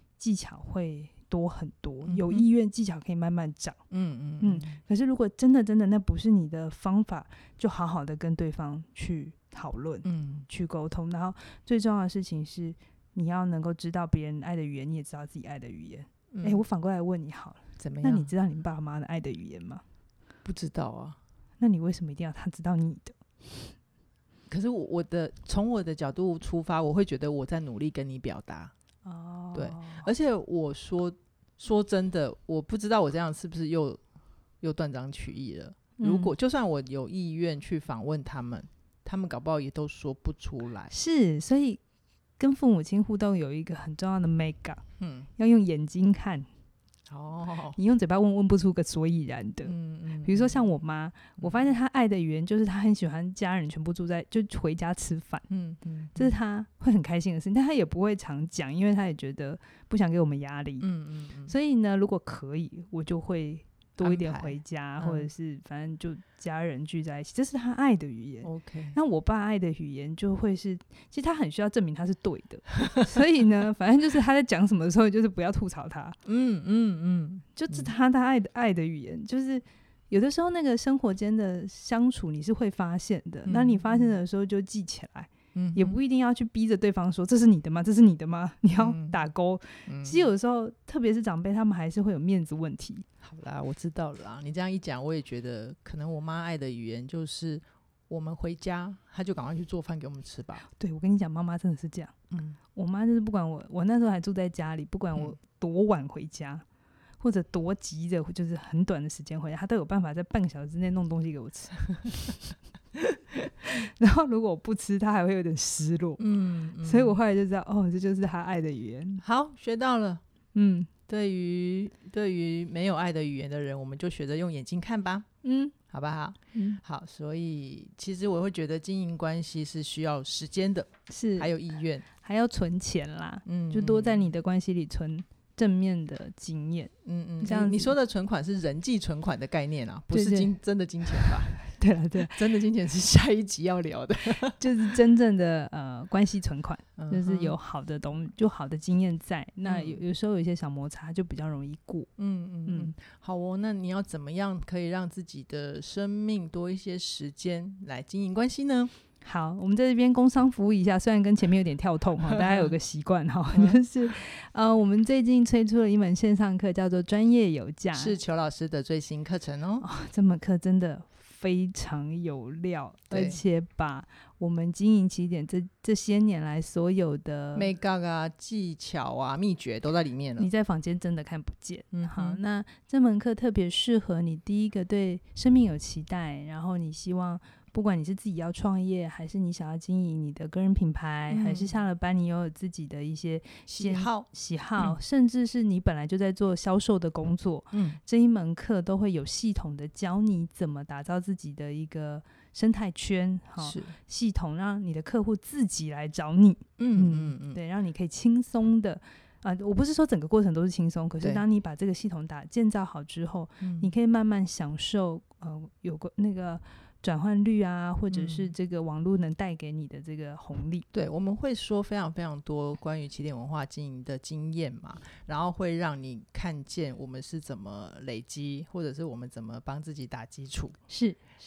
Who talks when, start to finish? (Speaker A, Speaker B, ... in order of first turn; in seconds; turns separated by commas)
Speaker A: 0.2-3.8, Speaker B: 2.0-2.4, Speaker B: 3.9-4.8, Speaker A: 4.4-19.8, Speaker B: 10.0-10.5, Speaker B: 16.3-16.6, Speaker B: 17.8-18.3, Speaker B: 20.4-21.2, Speaker A: 21.6-23.7, Speaker B: 24.5-28.7, Speaker A: 29.0-30.1, Speaker B: 29.5-34.0, Speaker B: 34.6-40.9, Speaker A: 36.0-36.3, Speaker A: 40.9-41.8, Speaker A: 42.4-44.8, Speaker B: 45.0-45.3, Speaker A: 45.4-46.5, Speaker B: 47.1-47.8, Speaker A: 47.8-55.4, Speaker B: 49.6-50.6, Speaker B: 51.4-51.6, Speaker B: 55.5-56.4, Speaker A: 56.1-60.9, Speaker B: 60.8-61.5, Speaker A: 61.5-76.2, Speaker B: 64.0-65.3, Speaker B: 68.4-69.0, Speaker B: 76.2-77.9, Speaker A: 77.5-93.0, Speaker B: 83.4-84.1, Speaker B: 85.5-86.0, Speaker B: 88.7-89.2, Speaker B: 89.9-90.3, Speaker B: 93.2-100.6, Speaker A: 100.7-102.1, Speaker B: 102.3-102.6, Speaker A: 102.7-106.6, Speaker A: 107.2-112.4, Speaker A: 113.6-116.2, Speaker B: 116.2-117.2, Speaker A: 116.8-119.2, Speaker B: 119.2-120.2, Speaker A: 120.5-120.9, Speaker B: 121.1-125.3, Speaker A: 125.4-125.7, Speaker B: 125.9-132.1, Speaker A: 126.5-126.8, Speaker A: 131.1-131.5, Speaker A: 132.1-137.9, Speaker B: 133.4-134.3, Speaker B: 137.0-141.6, Speaker A: 140.1-140.5, Speaker A: 141.2-142.4, Speaker B: 142.2-144.6, Speaker A: 144.6-152.1, Speaker B: 147.0-147.6, Speaker B: 149.7-150.0, Speaker B: 152.2-158.9, Speaker A: 152.7-152.9, Speaker A: 159.2-168.2, Speaker B: 162.3-162.7, Speaker B: 163.5-163.8, Speaker B: 167.9-169.8, Speaker A: 169.8-177.7, Speaker B: 173.1-173.4, Speaker B: 177.5-180.5, Speaker A: 180.4-220.9, Speaker B: 181.9-182.4, Speaker B: 191.3-191.7, Speaker B: 193.7-194.9, Speaker B: 197.7-198.0, Speaker B: 203.6-204.0, Speaker B: 206.8-207.6, Speaker B: 213.6-213.9, Speaker B: 218.1-218.5, Speaker B: 220.9-230.8, Speaker A: 230.9-231.4